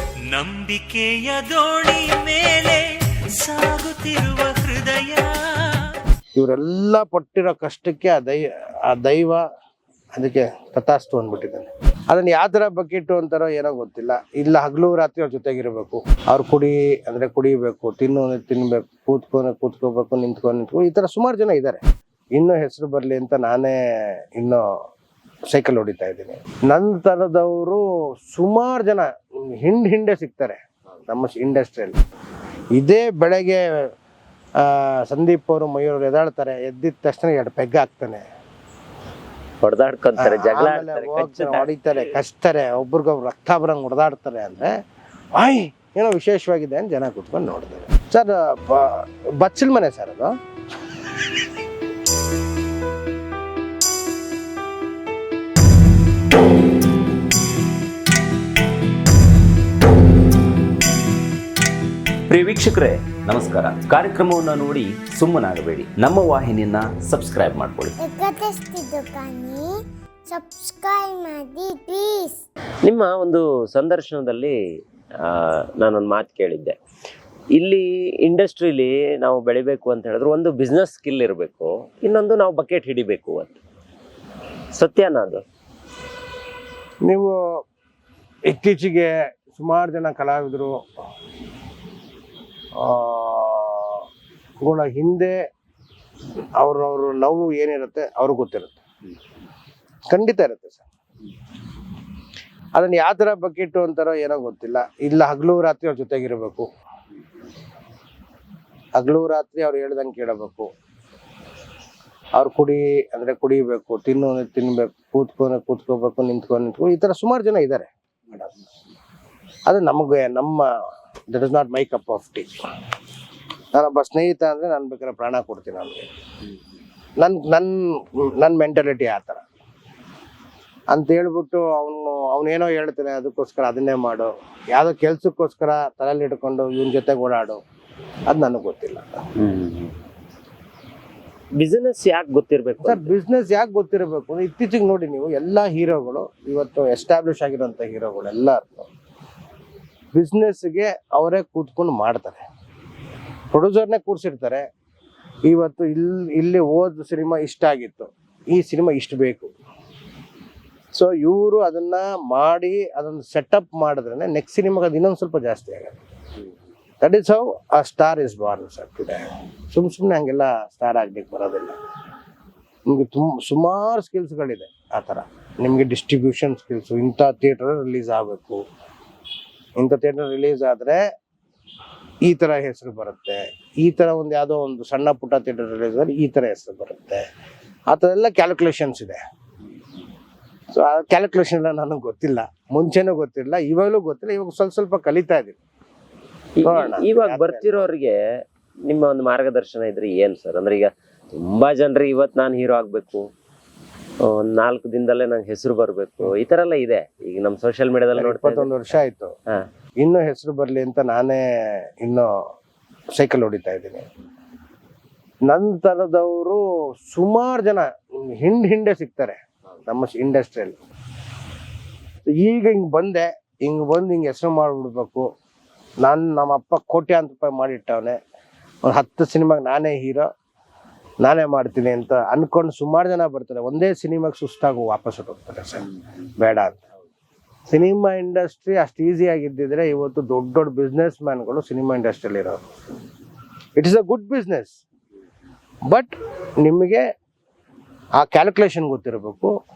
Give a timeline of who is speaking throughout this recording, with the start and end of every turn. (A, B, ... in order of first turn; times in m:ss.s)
0:00.3-0:05.4 A
0:06.4-0:09.4 B
0:10.2-0:21.8 B
0:22.3-0:24.7 B
0:25.5-0:32.0 B
0:32.8-0:33.9 B
0:34.6-0:38.2 B
0:39.6-0:42.2 C
0:40.2-0:44.7 B
0:45.3-0:50.3 B
1:02.3-1:08.0 D
1:08.0-1:09.7 E
1:10.3-1:12.4 E
1:12.8-1:14.6 C
1:15.2-1:16.8 C
1:17.6-1:23.6 C
1:24.7-1:25.4 C
1:27.0-1:27.3 B
1:28.5-1:30.8 B
1:32.8-1:34.0 B
1:34.6-1:35.3 B
1:36.6-1:38.8 B
1:40.1-1:40.8 B
1:42.7-1:46.7 B
1:48.9-1:50.7 B
1:52.3-1:58.5 B
1:59.7-2:00.7 B
2:01.3-2:02.7 B
2:03.7-2:06.1 B
2:07.2-2:09.4 B
2:10.9-2:17.6 B
2:18.3-2:19.1 B
2:19.4-2:19.9 C
2:21.6-2:23.1 C
2:22.8-2:28.9 B
2:30.1-2:32.4 B
2:33.5-2:34.6 B
2:35.5-2:39.5 B
2:40.9-2:46.0 B
2:47.0-2:51.8 B
2:52.9-2:58.6 B
2:59.8-3:01.0 B
3:02.2-3:07.2 B
3:07.9-3:09.2 B
3:10.7-3:15.6 B
3:16.6-3:18.2 C
3:16.6-3:17.9 B
3:18.8-3:23.2 C
3:24.2-3:28.7 C
3:28.2-3:29.3 B
3:30.0-3:32.3 B
3:33.1-3:34.1 B
3:35.5-3:40.8 B
3:42.3-3:45.3 B
3:46.0-3:48.2 B
3:48.8-3:50.3 B
3:51.2-3:55.9 B
3:56.4-3:56.8 B
3:57.7-4:02.6 B
4:03.8-4:04.8 B
4:05.9-4:07.0 B
4:08.2-4:09.5 B